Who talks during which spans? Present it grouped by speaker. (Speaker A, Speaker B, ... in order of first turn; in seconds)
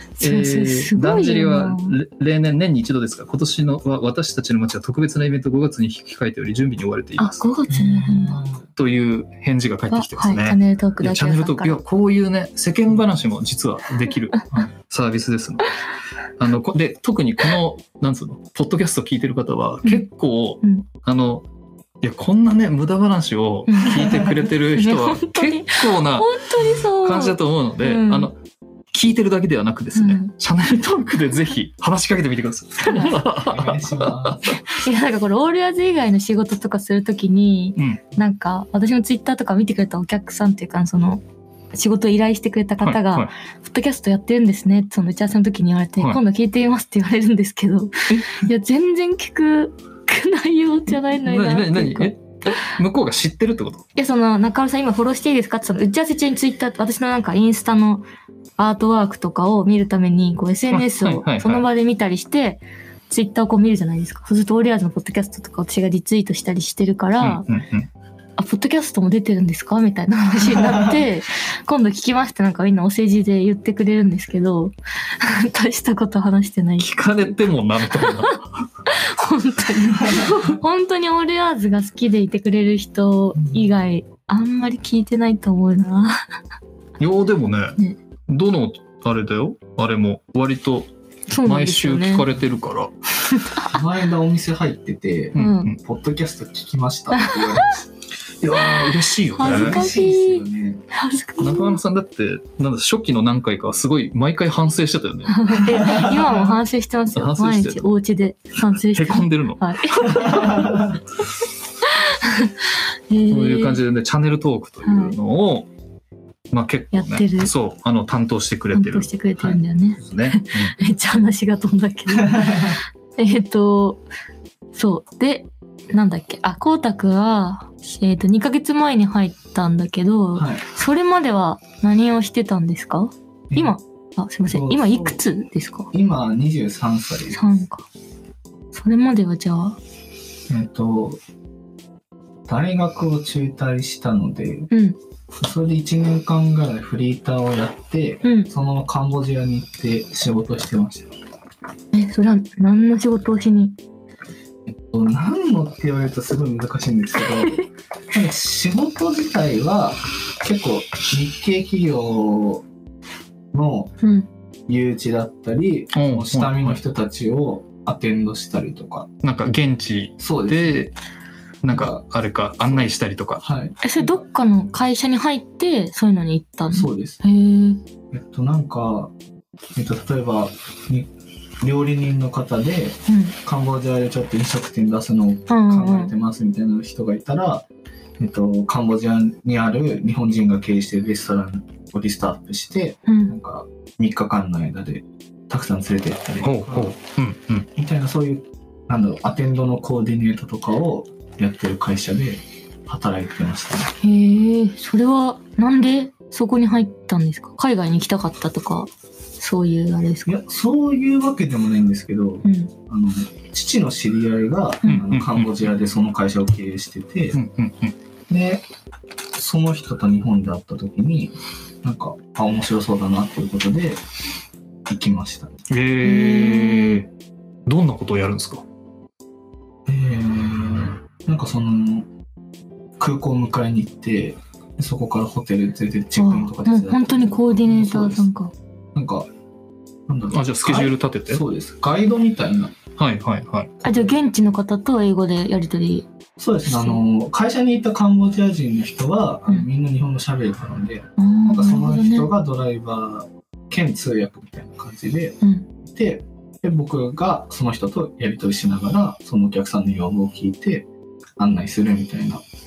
Speaker A: 0.2-1.9, 7.2-8.4, 9.9-11.8, 23.7-28.3, 29.9-30.3, 32.8-33.2, 34.6-41.2, 41.7-52.7, 54.0-58.0, 58.6-67.5, 68.4-77.3, 77.9-78.3, 78.8-86.2, 91.3-92.3, 93.3-93.7, 95.3-95.7, 97.1-97.8, 99.3-101.8, 105.3-111.0, 111.8-113.8, 114.8-115.2, 116.9-117.5, 118.7-124.0, 124.7-135.9, 137.3-137.9, 138.7-139.8, 144.7-145.0, 148.2-148.5, 151.9-153.7, 157.3-157.7, 164.0-164.3, 173.8-177.8, 183.1-183.3, 185.5-186.1, 193.1-193.3, 204.0-210.3, 212.4-212.7, 226.0-227.0, 236.2-238.5, 243.8-246.1, 246.6-247.0, 251.2-252.3
Speaker B: 0.2-7.5, 8.8-15.7, 16.4-21.4, 22.0-28.4, 28.9-34.6, 42.8-43.3, 48.1-48.4, 51.2-53.8, 60.7-61.7, 67.2-67.9, 76.8-78.4, 87.0-92.9, 95.3-95.8, 98.4-99.8, 101.4-106.0, 107.1-107.9, 108.8-110.3, 113.3-115.7, 116.5-119.1, 120.0-120.8, 165.9-166.8, 169.2-170.9, 171.6-173.4, 196.4-197.7, 214.9-215.6, 217.3-217.9, 225.7-227.1, 227.7-228.6, 240.3-241.4, 243.0-243.8
Speaker C: 7.7-8.7, 33.3-34.6, 93.7-97.9, 99.4-100.8, 105.9-106.3, 110.2-110.9, 122.2-122.8, 130.3-130.6, 133.5-133.8, 134.5-135.2, 135.9-137.5, 140.5-141.2, 142.5-144.7, 145.4-151.2, 154.7-157.6, 158.1-162.6, 163.5-163.9, 164.7-169.1, 170.2-170.8, 171.7-172.0, 173.4-174.2, 176.7-177.2, 178.1-179.1, 179.7-181.1, 181.6-187.7, 188.2-196.9, 197.7-203.9, 210.2-217.4, 218.3-218.6, 219.3-224.0, 224.9-225.6, 229.8-232.1, 233.0-238.3, 238.9-239.3, 240.1-242.8, 243.8-244.2, 246.4-260.9, 261.4-262.4